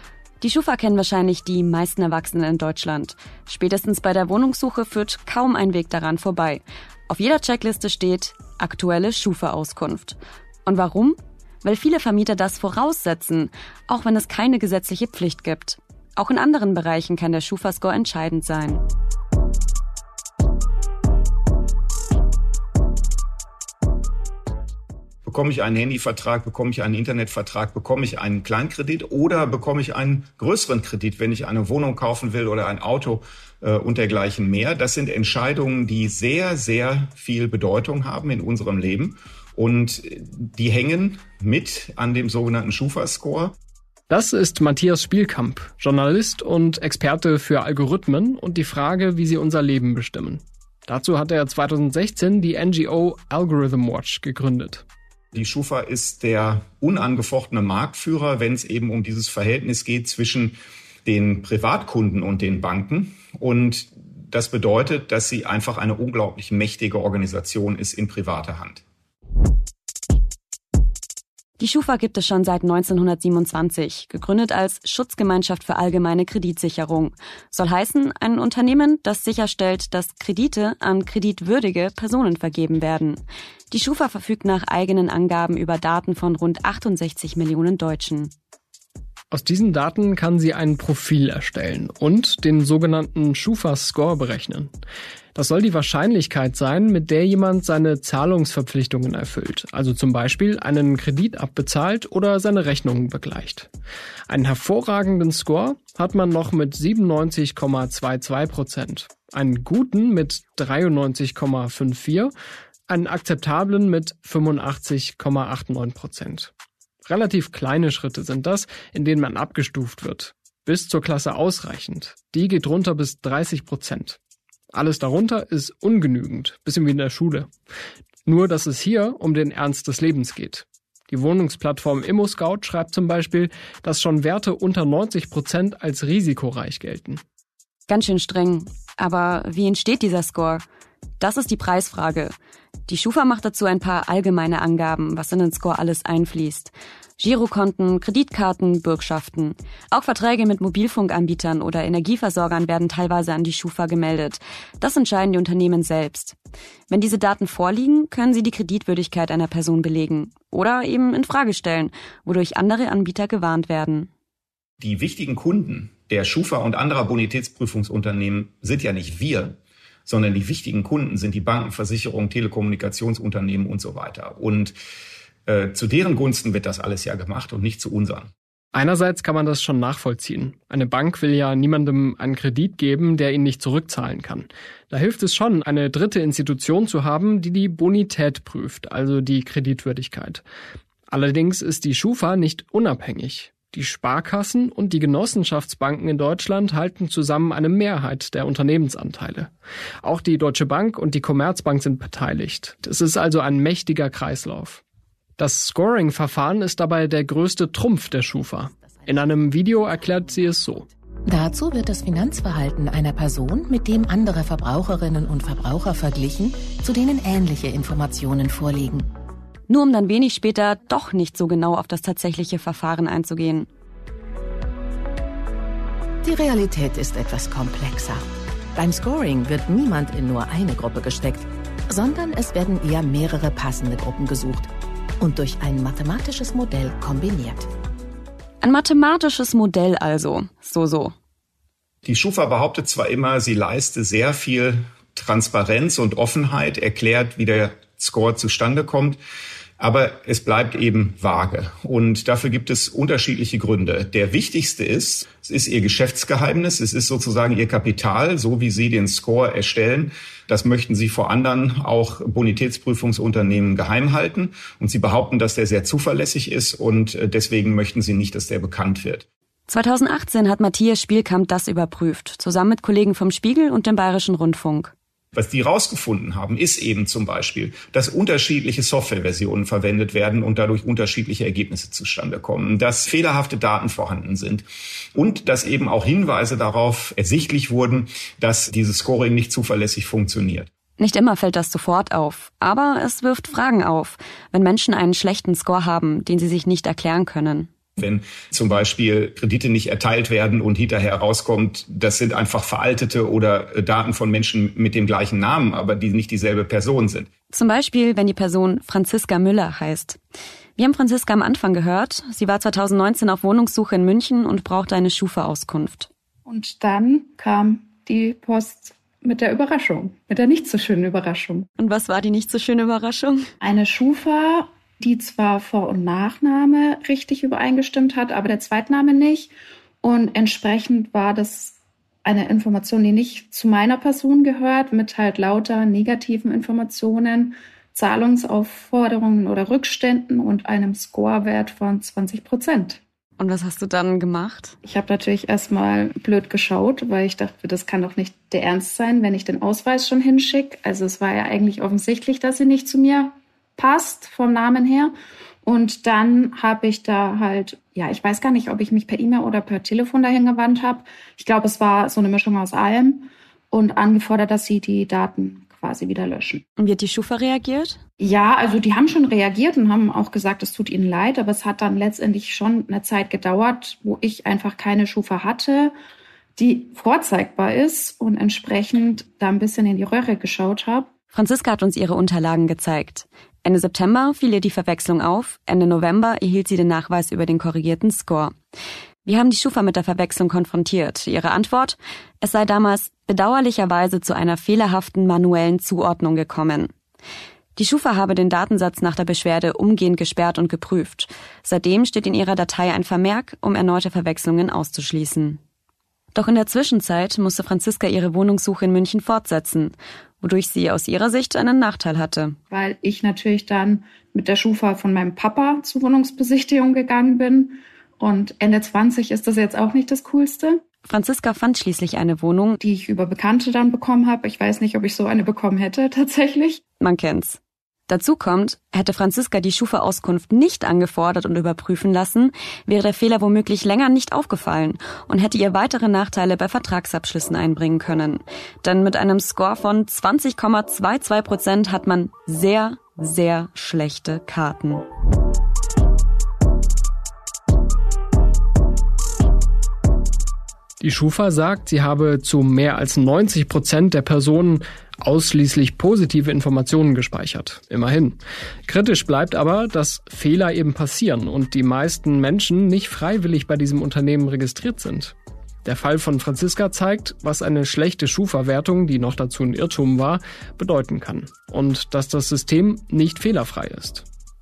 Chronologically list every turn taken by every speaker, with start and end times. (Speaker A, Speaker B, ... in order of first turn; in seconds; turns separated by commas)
Speaker A: 0.4-18.8, Speaker B: 25.2-43.5, Speaker C: 44.1-54.8, Speaker B: 55.3-68.8, Speaker A: 71.6-88.3, Speaker C: 89.3-94.7, Speaker C: 95.3-103.7, Speaker C: 104.3-112.3, Speaker C: 112.9-116.5, Speaker C: 117.0-124.2, Speaker C: 124.7-127.5, Speaker C: 128.2-137.2, Speaker A: 137.9-140.6, Speaker A: 141.2-142.3, Speaker A: 142.9-156.3, Speaker A: 156.9-164.1, Speaker B: 164.8-174.7, Speaker B: 175.4-178.3, Speaker C: 178.7-190.4, Speaker C: 191.1-199.5, Speaker C: 200.0-204.8, Speaker C: 205.4-210.8, Speaker D: 208.8-209.1, Speaker D: 211.2-219.1, Speaker A: 219.7-223.7, Speaker D: 226.2-237.7, Speaker A: 238.6-241.1, Speaker B: 242.1-249.2, Speaker B: 249.8-269.2, Speaker A: 269.7-274.9, Speaker B: 275.3-290.7, Speaker A: 291.0-297.7, Speaker B: 298.0-307.3, Speaker A: 307.5-310.2, Speaker A: 310.8-316.1, Speaker E: 316.5-321.7, Speaker A: 321.8-323.5, Speaker E: 323.6-329.5, Speaker E: 330.0-343.0, Speaker A: 343.4-344.8, Speaker E: 344.8-355.1, Speaker E: 355.6-366.6, Speaker A: 366.8-368.0, Speaker E: 368.2-375.9, Speaker E: 376.6-381.1, Speaker A: 381.3-388.6, Speaker A: 389.2-396.9, Speaker A: 397.8-405.6, Speaker A: 406.3-412.6, Speaker E: 412.7-420.8, Speaker A: 421.1-422.8, Speaker E: 422.8-426.8, Speaker A: 427.0-445.0, Speaker C: 451.0-474.2